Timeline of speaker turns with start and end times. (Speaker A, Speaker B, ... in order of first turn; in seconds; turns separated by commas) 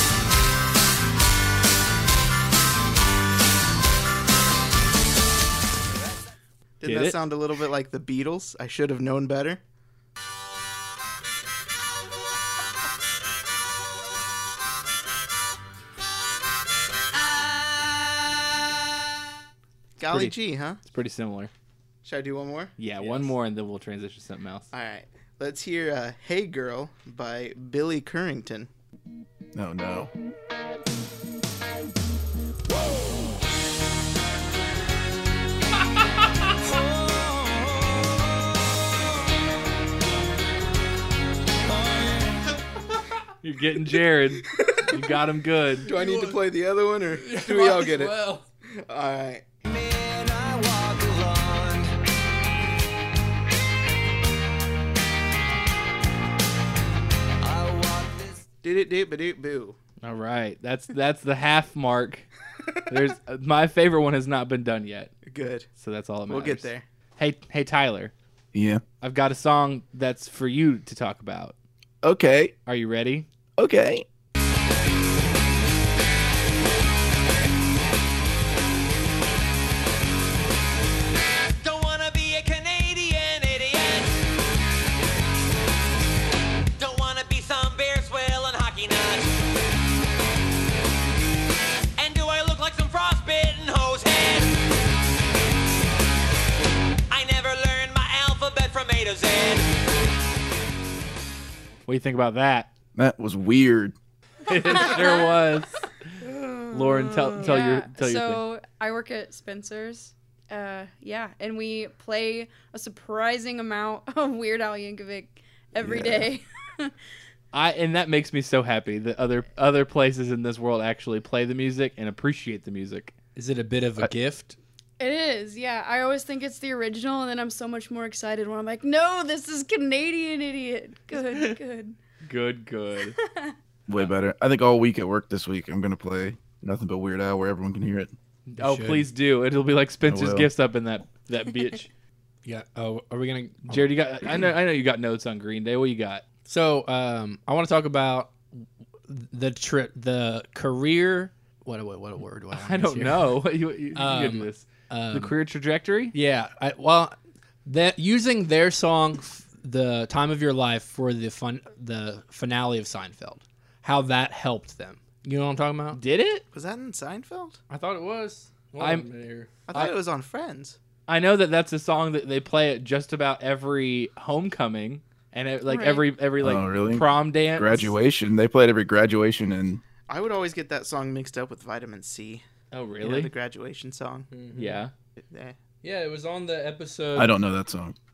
Speaker A: 6.8-9.6, Speaker B: 6.8-7.2, Speaker A: 20.0-20.8, Speaker B: 20.1-21.5, Speaker A: 22.0-23.1, Speaker B: 22.8-24.7, Speaker A: 24.7-28.7, Speaker C: 29.5-30.1, Speaker D: 36.9-38.0, Speaker B: 43.4-45.9, Speaker A: 44.4-45.0, Speaker A: 45.8-49.4, Speaker E: 45.9-46.4, Speaker E: 47.2-48.5, Speaker D: 49.6-51.9, Speaker D: 57.4-58.4, Speaker A: 58.6-59.8, Speaker B: 60.0-62.3, Speaker B: 62.9-65.1, Speaker A: 65.2-65.7, Speaker B: 65.8-68.1, Speaker A: 66.3-66.8, Speaker C: 68.5-68.8, Speaker B: 69.0-71.5, Speaker C: 72.0-72.5, Speaker B: 72.7-73.3, Speaker C: 73.6-74.0, Speaker D: 81.6-84.1, Speaker D: 86.8-89.3, Speaker D: 92.0-94.5, Speaker D: 97.1-99.7, Speaker B: 101.8-102.7, Speaker C: 103.0-103.9, Speaker B: 104.5-106.1, Speaker F: 104.5-105.5, Speaker F: 106.2-116.9, Speaker B: 106.7-108.4, Speaker C: 115.8-116.2, Speaker B: 117.5-123.1, Speaker E: 123.3-124.6, Speaker F: 125.0-131.9, Speaker B: 131.3-131.6, Speaker B: 132.2-133.2, Speaker F: 133.1-133.5, Speaker C: 133.9-138.1, Speaker B: 138.5-141.9, Speaker E: 138.6-139.1, Speaker C: 140.0-140.5, Speaker E: 142.4-143.9, Speaker B: 143.7-146.2, Speaker E: 146.5-153.4, Speaker B: 152.5-156.1, Speaker E: 153.9-155.3, Speaker E: 156.1-166.0, Speaker B: 165.9-166.4, Speaker A: 166.5-167.6, Speaker E: 167.7-169.5, Speaker B: 168.8-169.1, Speaker A: 169.7-170.8, Speaker B: 171.1-177.9, Speaker F: 175.7-176.1, Speaker C: 176.4-179.8, Speaker A: 180.1-182.4, Speaker B: 182.7-183.3, Speaker A: 183.0-184.3, Speaker E: 184.3-184.8, Speaker B: 184.6-184.9, Speaker A: 185.2-185.6, Speaker E: 185.8-187.3, Speaker C: 187.1-187.9